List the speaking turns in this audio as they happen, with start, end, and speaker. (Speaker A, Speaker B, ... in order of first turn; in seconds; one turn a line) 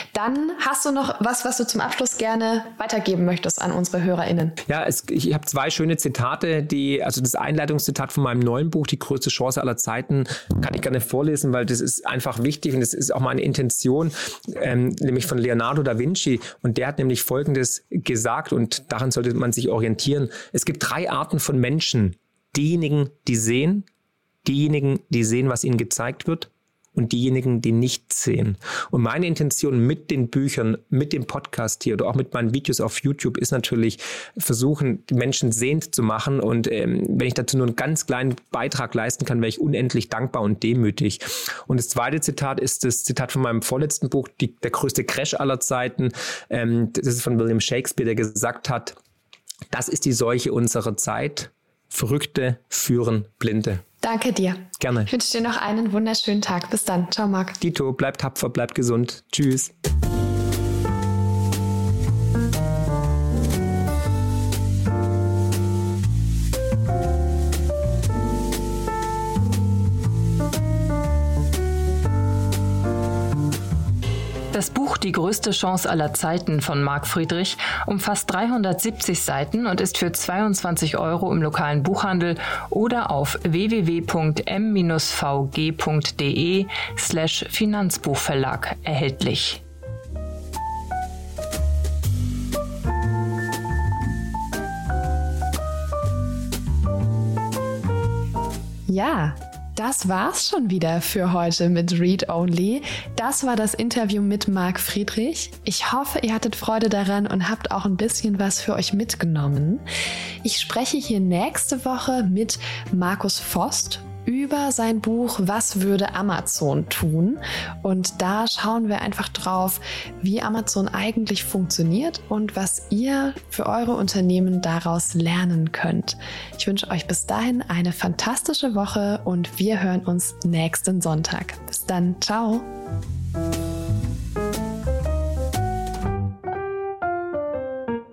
Speaker A: 0.1-4.6
Speaker B: 4.7-23.9
Speaker B: 24.4-49.0
Speaker B: 49.7-53.8
Speaker A: 54.0-57.6
Speaker B: 54.8-55.1
Speaker B: 57.6-59.7
Speaker C: 74.5-89.6
Speaker A: 98.9-109.8
Speaker A: 110.4-132.7